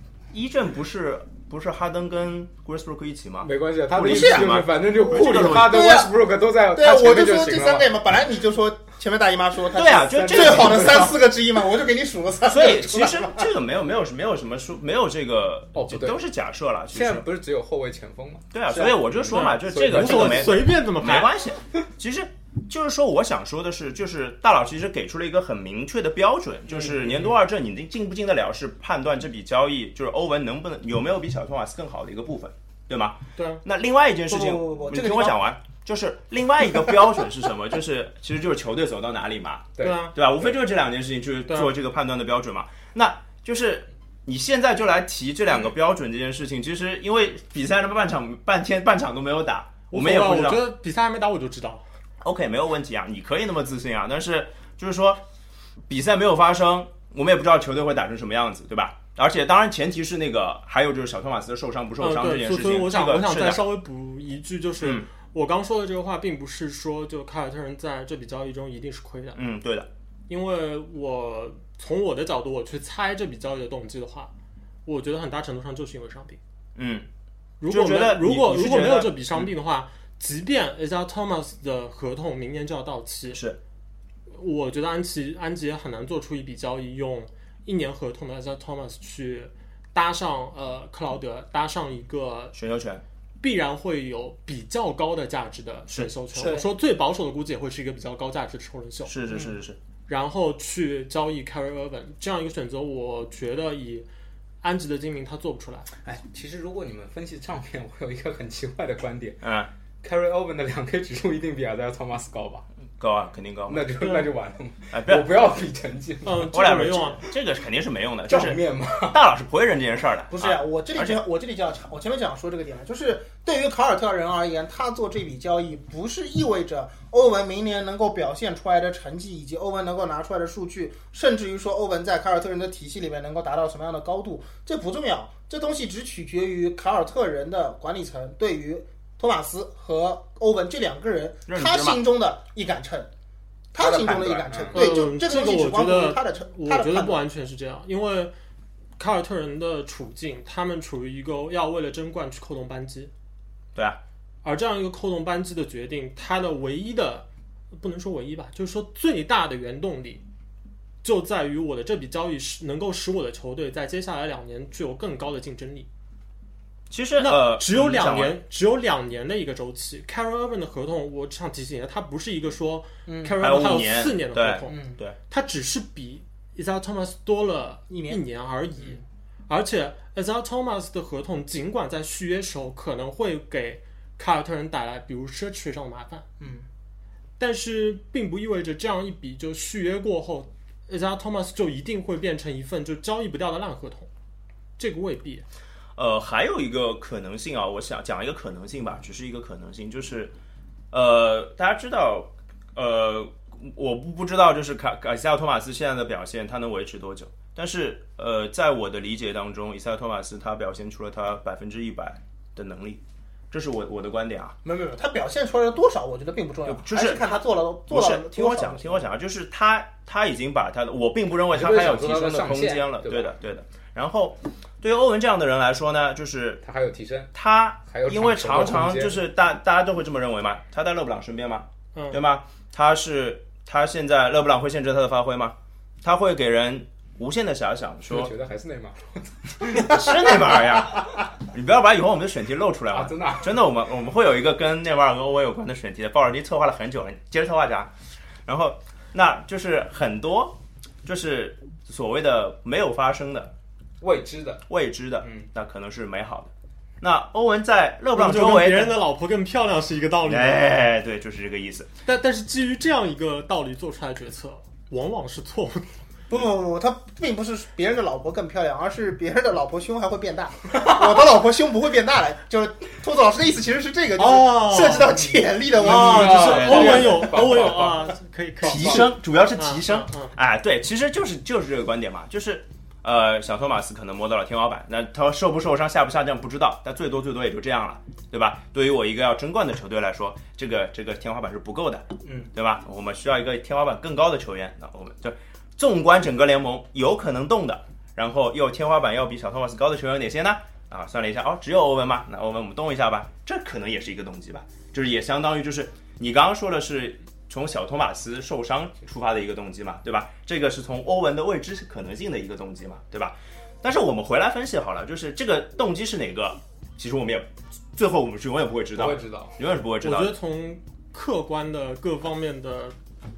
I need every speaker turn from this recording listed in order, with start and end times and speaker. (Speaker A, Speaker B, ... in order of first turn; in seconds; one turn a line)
Speaker A: 0.3-5.9
Speaker B: 3.4-7.9
Speaker C: 4.0-4.5
Speaker C: 5.1-6.1
Speaker C: 6.7-13.5
Speaker A: 9.7-11.1
Speaker B: 10.0-11.2
Speaker A: 12.4-17.2
Speaker B: 15.7-16.2
Speaker B: 16.9-20.6
Speaker A: 18.5-50.6
Speaker D: 19.3-21.3
Speaker B: 26.8-27.3
Speaker D: 33.4-33.6
Speaker C: 34.3-35.4
Speaker B: 39.8-40.0
Speaker D: 39.8-40.1
Speaker D: 49.9-51.8
Speaker A: 52.2-55.2
Speaker A: 55.9-63.7
Speaker D: 62.0-69.4
Speaker A: 64.8-65.1
Speaker A: 69.3-69.9
Speaker D: 70.3-74.3
Speaker D: 74.8-76.4
Speaker A: 76.8-77.1
Speaker D: 77.6-83.4
Speaker A: 77.7-79.5
Speaker A: 83.3-83.6
Speaker D: 84.3-92.5
Speaker A: 92.5-93.0
Speaker D: 93.4-99.1
Speaker A: 95.9-96.6
Speaker B: 96.3-96.6
Speaker A: 99.1-99.8
Speaker B: 99.3-99.5
Speaker D: 100.1-104.1
Speaker D: 104.6-105.9
Speaker B: 106.0-109.4
Speaker A: 109.4-109.7
Speaker B: 110.0-112.6
Speaker A: 113.0-114.0
Speaker B: 113.7-116.5
Speaker D: 114.0-114.3
Speaker A: 114.9-115.3
Speaker D: 116.2-117.2
Speaker A: 116.5-121.2
Speaker B: 118.3-119.2
Speaker C: 120.3-143.1
Speaker A: 141.5-142.0
Speaker C: 143.7-147.2
Speaker A: 143.8-144.5
Speaker B: 144.5-144.9
Speaker D: 144.7-148.3
Speaker D: 149.0-153.1
Speaker D: 154.4-160.2
Speaker D: 161.0-165.9
Speaker A: 166.9-168.4
Speaker D: 167.2-174.8
Speaker B: 173.1-173.4
Speaker A: 173.4-175.2
Speaker B: 174.7-175.0
Speaker D: 175.3-186.2
Speaker C: 177.9-178.2
Speaker B: 186.4-186.7
Speaker D: 187.4-194.1
Speaker D: 194.8-195.4
Speaker A: 195.9-200.3
Speaker A: 200.9-214.6
Speaker C: 214.6-219.1
Speaker A: 216.7-226.6
Speaker B: 221.5-223.3
Speaker B: 226.6-227.3
Speaker A: 227.3-238.3
Speaker B: 227.9-229.2
Speaker D: 231.9-232.2
Speaker B: 238.1-240.5
Speaker A: 239.7-247.9
Speaker B: 242.9-243.6
Speaker A: 248.4-253.5
Speaker B: 254.0-254.6
Speaker A: 254.7-256.5
Speaker B: 255.2-255.5
Speaker A: 257.0-259.0
Speaker D: 258.1-260.6
Speaker A: 260.2-261.9
Speaker D: 262.0-265.9
Speaker C: 266.3-277.0
Speaker D: 274.2-275.1
Speaker B: 275.0-278.1
Speaker D: 275.8-280.3
Speaker A: 276.1-277.8
Speaker A: 278.6-320.4
Speaker B: 278.6-279.0
Speaker B: 292.2-292.5
Speaker B: 318.9-319.6
Speaker D: 320.0-322.9